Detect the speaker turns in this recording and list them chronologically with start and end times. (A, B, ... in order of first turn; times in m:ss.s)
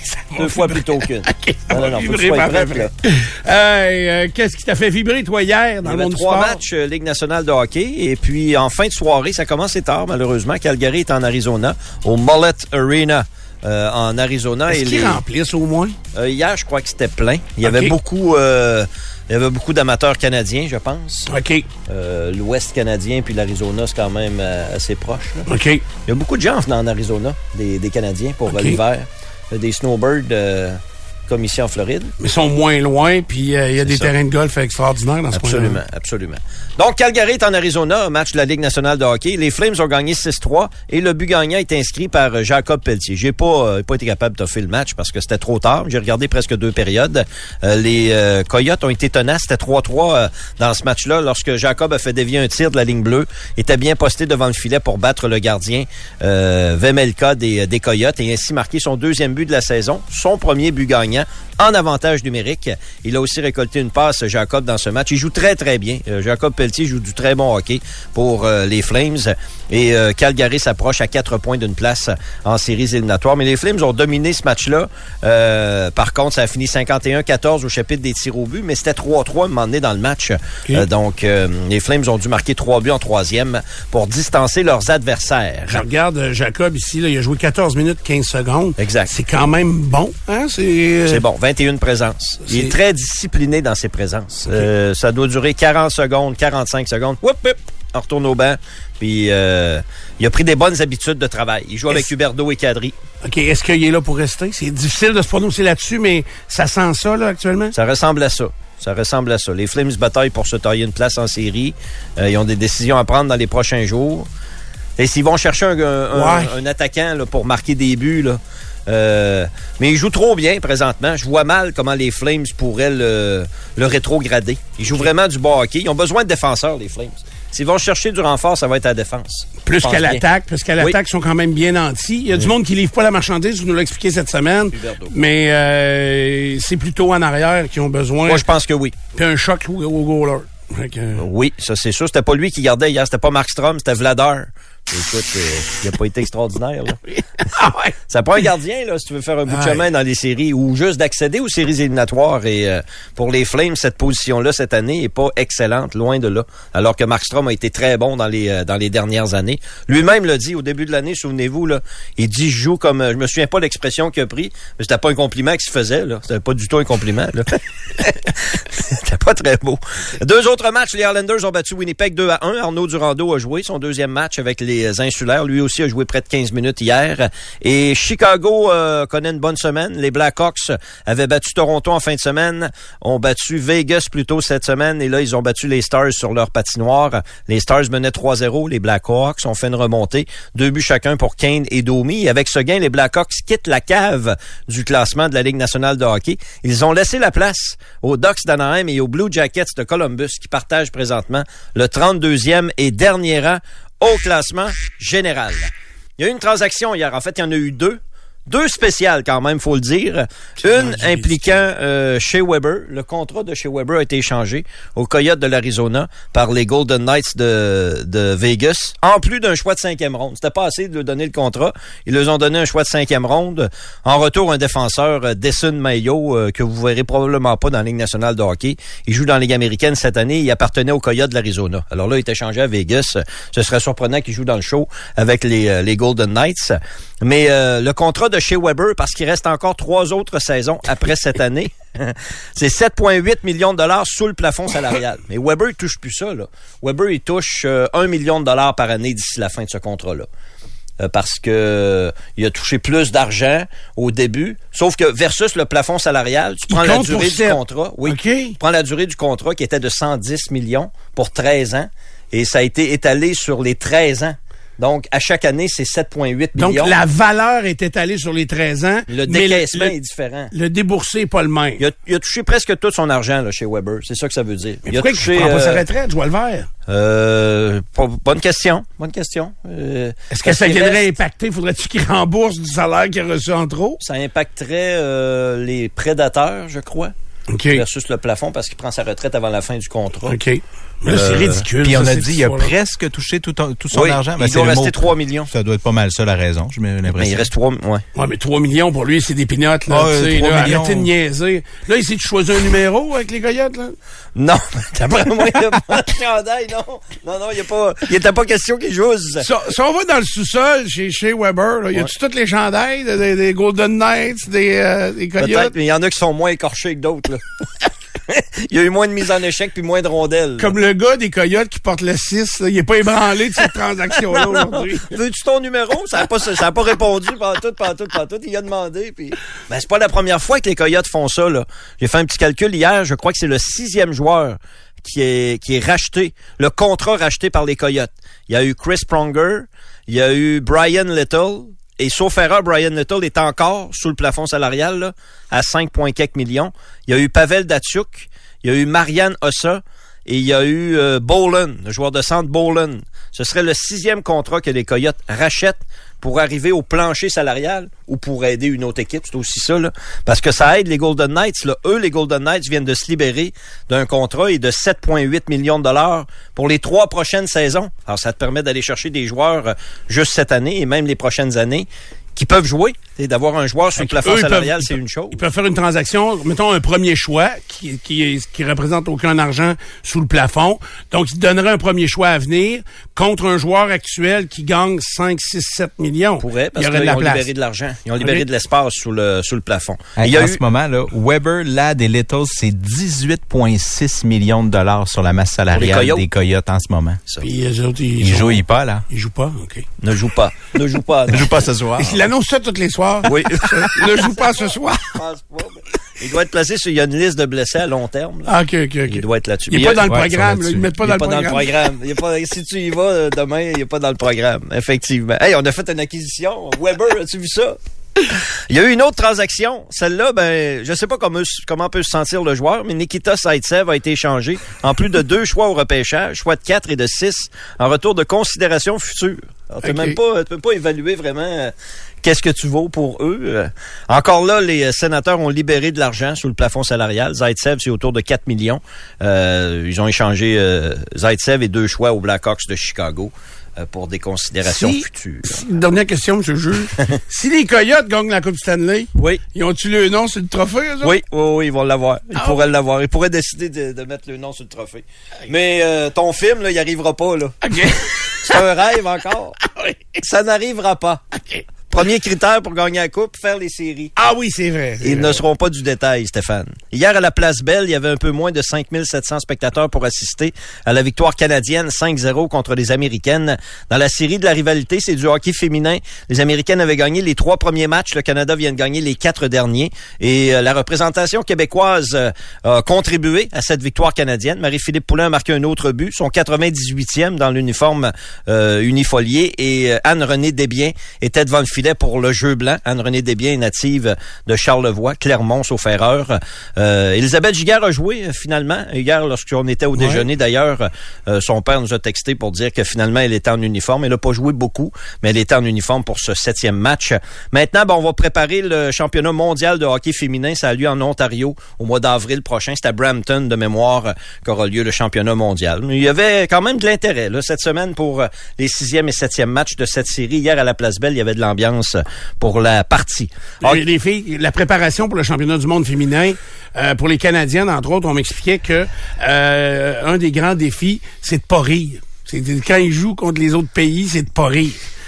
0:00.1-0:06.6 A
0:00.3-0:02.9 B
0:05.8-0:15.2 B
0:14.7-0:16.0 A
0:16.1-0:21.3 B
0:17.6-0:17.9 A
0:21.3-0:21.7 A
0:21.8-0:25.5 B
0:25.5-0:25.8 A
0:26.0-0:32.1 B
0:28.5-0:28.8 A
0:32.2-0:35.8 A
0:33.8-0:34.1 B
0:35.3-1:25.8 B
1:25.7-1:31.2 A
1:28.8-1:29.1 B
1:31.1-1:43.0 B
1:32.5-1:32.7 A
1:43.2-1:47.7 A
1:47.7-1:54.3 B
1:55.0-2:10.2 B
1:56.1-1:56.6 A
2:09.6-2:18.4 A
2:14.7-2:15.1 B
2:18.2-2:19.0 B
2:19.1-2:21.2 A
2:21.1-2:27.0 B
2:27.5-2:27.9 A
2:28.1-4:10.3 B
2:29.5-2:29.8 A
3:30.6-3:31.6 A
4:11.0-4:27.0 B
4:16.7-4:18.6 A
4:26.6-4:29.9 A
4:29.1-4:30.5 B
4:30.5-4:31.8 A
4:31.8-4:35.8 B
4:34.8-4:36.7 A
4:36.9-4:41.1 B
4:40.3-4:44.0 A
4:44.0-4:47.1 B
4:47.5-4:47.8 A
4:47.7-4:50.4 B
4:50.2-4:52.7 A
4:51.1-4:51.6 B
4:51.8-4:57.5 C
4:53.9-4:55.5 B
4:57.2-4:58.0 B
4:58.1-5:03.9 A
4:59.9-5:01.1 C
5:04.3-5:09.5 B
5:09.4-5:15.7 A
5:15.4-5:17.4 B
5:18.3-5:20.7 B
5:20.6-5:25.1 A
5:24.3-6:15.4 B
6:14.0-6:27.5 A
6:26.4-6:30.6 B
6:30.2-6:37.2 C
6:35.7-6:36.3 B
6:37.4-6:39.9 A
6:38.2-6:39.0 C
6:40.0-6:41.5 B
6:41.3-6:42.2 C
6:42.0-6:45.0 A
6:43.2-6:48.5 B
6:48.4-6:51.8 A
6:49.1-6:50.1 B
6:50.1-6:50.9 C
6:51.0-7:25.6 B
7:09.8-7:10.2 A
7:24.6-7:31.2 A
7:31.0-7:37.6 B
7:32.4-7:32.6 A
7:37.6-7:38.6 A
7:38.4-7:39.6 B
7:40.2-7:41.2 B
7:41.9-7:44.1 B
7:44.2-7:45.4 A
7:45.0-8:43.8 B
8:20.0-8:20.2 A
8:43.6-8:54.8 A